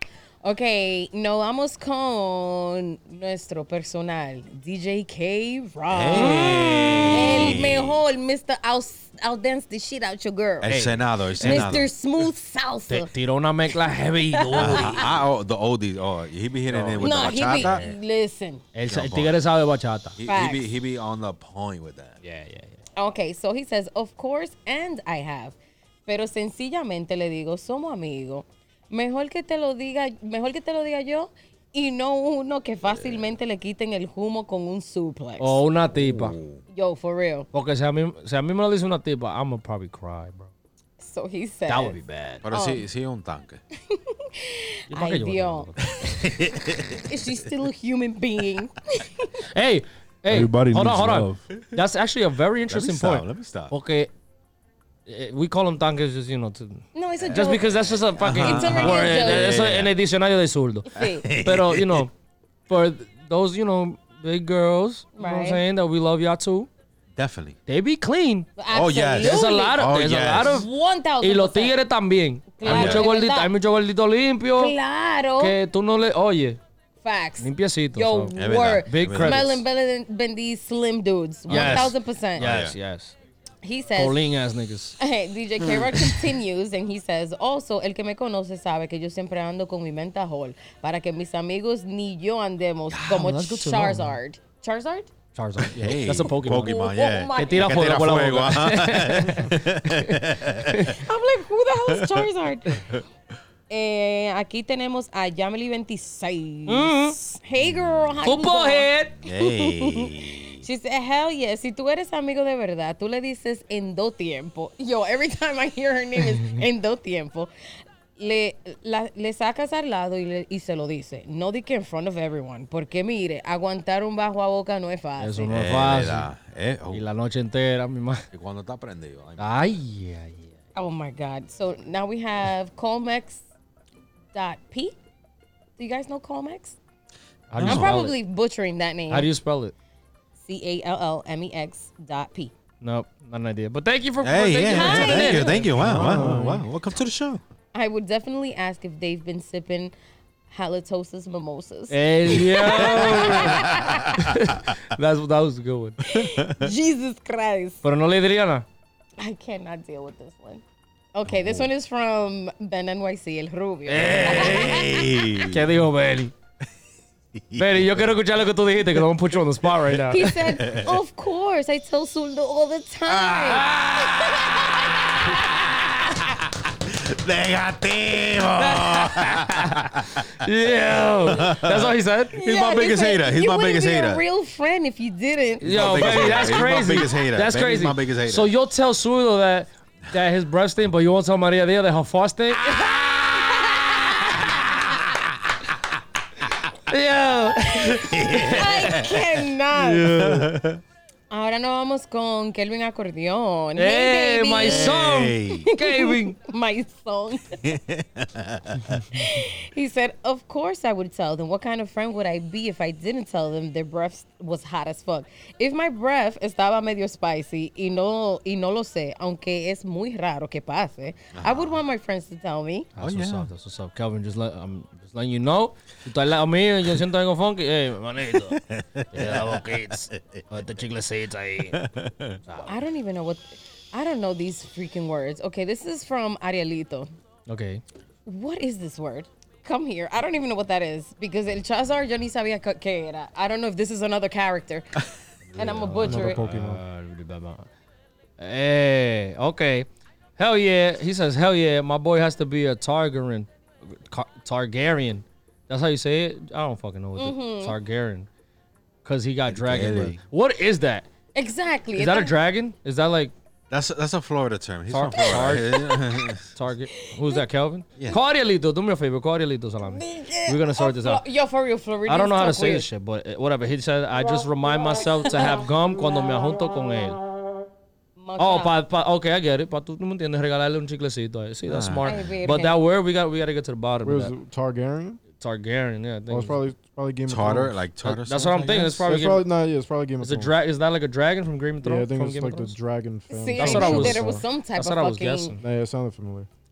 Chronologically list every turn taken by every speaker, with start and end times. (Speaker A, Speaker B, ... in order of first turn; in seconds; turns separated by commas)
Speaker A: 0.4-10.8, Speaker B: 5.9-8.0, Speaker C: 6.1-7.6, Speaker B: 10.6-11.9, Speaker C: 10.6-11.9, Speaker A: 11.4-13.1, Speaker C: 12.9-15.1, Speaker A: 14.3-15.1, Speaker B: 14.5-17.8, Speaker C: 16.7-18.0, Speaker A: 17.0-18.6, Speaker C: 18.7-20.2, Speaker B: 18.8-19.4, Speaker B: 20.2-22.2, Speaker A: 20.2-20.7, Speaker C: 22.2-22.8, Speaker A: 22.9-35.6, Speaker C: 35.4-36.4, Speaker B: 35.9-36.6, Speaker A: 36.7-37.5, Speaker C: 37.5-40.5, Speaker A: 41.0-42.0, Speaker C: 41.7-42.4, Speaker B: 42.4-43.6, Speaker A: 42.5-42.8, Speaker A: 43.9-45.7, Speaker C: 44.9-45.9, Speaker B: 46.0-47.0, Speaker A: 46.9-49.4, Speaker C: 49.5-54.1, Speaker D: 50.3-51.4, Speaker B: 52.7-53.7, Speaker C: 55.1-62.1, Speaker A: 56.9-59.5, Speaker B: 58.2-59.9, Speaker A: 60.9-61.3, Speaker B: 61.0-62.1, Speaker C: 62.7-66.7, Speaker A: 65.2-65.6, Speaker B: 67.2-67.5, Speaker C: 67.7-68.5, Speaker A: 68.6-69.8, Speaker B: 68.7-70.6, Speaker C: 69.2-70.7, Speaker A: 70.4-71.8, Speaker C: 71.2-74.7, Speaker A: 72.6-73.5, Speaker B: 72.6-73.0, Speaker A: 74.5-75.5, Speaker C: 75.4-76.6, Speaker A: 77.0-82.5, Speaker C: 77.4-79.6, Speaker B: 78.3-79.6, Speaker B: 81.5-82.8, Speaker C: 81.5-83.1, Speaker A: 83.6-84.2, Speaker C: 83.9-85.0, Speaker A: 85.0-95.1, Speaker C: 92.9-94.2, Speaker C: 95.3-96.8, Speaker B: 95.6-101.0, Speaker A: 96.6-98.0, Speaker C: 97.3-101.0, Speaker A: 100.9-102.9, Speaker B: 101.9-102.2, Speaker A: 103.7-117.5, Speaker C: 106.7-107.2, Speaker B: 107.6-108.2, Speaker C: 108.2-109.2, Speaker B: 109.2-110.6, Speaker A: 118.2-125.5, Speaker C: 125.2-126.3, Speaker B: 125.5-127.0, Speaker C: 126.9-128.3, Speaker B: 128.3-129.4, Speaker C: 129.4-130.5, Speaker A: 130.7-133.4, Speaker A: 134.3-134.9, Speaker A: 135.8-136.8, Speaker C: 137.5-138.2, Speaker B: 137.6-137.9, Speaker A: 137.6-139.3, Speaker C: 139.1-139.7, Speaker A: 140.4-142.5, Speaker C: 142.8-146.6, Speaker B: 144.2-147.4, Speaker A: 144.7-145.7, Speaker D: 145.8-146.6, Speaker A: 147.7-149.9, Speaker A: 150.5-154.2, Speaker C: 151.9-156.0, Speaker B: 152.8-153.9, Speaker A: 156.0-157.8, Speaker B: 156.2-156.5, Speaker C: 157.8-158.7, Speaker A: 159.2-160.6, Speaker A: 161.1-165.4, Speaker B: 161.3-161.7, Speaker C: 163.9-164.9, Speaker B: 164.3-165.7, Speaker C: 165.4-166.3, Speaker B: 167.3-168.1, Speaker C: 167.6-170.6, Speaker B: 169.9-170.9, Speaker A: 170.1-175.0, Speaker B: 173.1-173.7, Speaker C: 173.4-174.4, Speaker B: 176.8-180.5, Speaker C: 178.6-182.4, Speaker B: 181.2-184.2, Speaker A: 182.3-186.7, Speaker B: 185.6-188.5, Speaker C: 185.6-192.9, Speaker C: 196.9-199.1, Speaker A: 197.8-200.1, Speaker B: 197.9-199.2, Speaker C: 199.7-200.5, Speaker B: 200.1-200.8, Speaker A: 201.3-207.6, Speaker C: 203.8-206.4, Speaker B: 204.6-205.7, Speaker B: 207.6-209.2, Speaker A: 209.1-222.9, Speaker B: 221.3-221.8, Speaker C: 223.0-228.6, Speaker B: 223.0-223.5, Speaker B: 228.5-230.4, Speaker C: 229.1-231.8, Speaker B: 231.7-232.4, Speaker A: 232.7-237.1, Speaker C: 237.5-237.8, Speaker A: 238.2-244.9, Speaker C: 245.5-247.7, Speaker A: 245.6-246.4, Speaker D: 246.0-246.8, Speaker C: 248.4-258.3, Speaker A: 257.2-257.8, Speaker C: 259.0-261.1, Speaker B: 259.5-260.2, Speaker A: 261.3-262.3, Speaker C: 262.0-263.3, Speaker B: 263.7-266.5, Speaker C: 264.9-265.8, Speaker A: 265.1-266.3, Speaker C: 266.5-271.2, Speaker A: 269.8-272.8, Speaker C: 272.1-277.2, Speaker A: 275.2-275.6, Speaker A: 278.2-278.7, Speaker C: 278.4-284.3, Speaker B: 281.6-282.1, Speaker A: 282.0-282.8, Speaker D: 284.0-285.2, Speaker C: 285.4-286.6, Speaker D: 286.3-287.8, Speaker B: 287.3-289.1, Speaker C: 288.0-289.4, Speaker D: 289.0-290.5, Speaker C: 290.2-292.8, Speaker D: 291.8-294.4, Speaker A: 293.3-295.6, Speaker C: 293.6-295.6, Speaker D: 295.6-296.5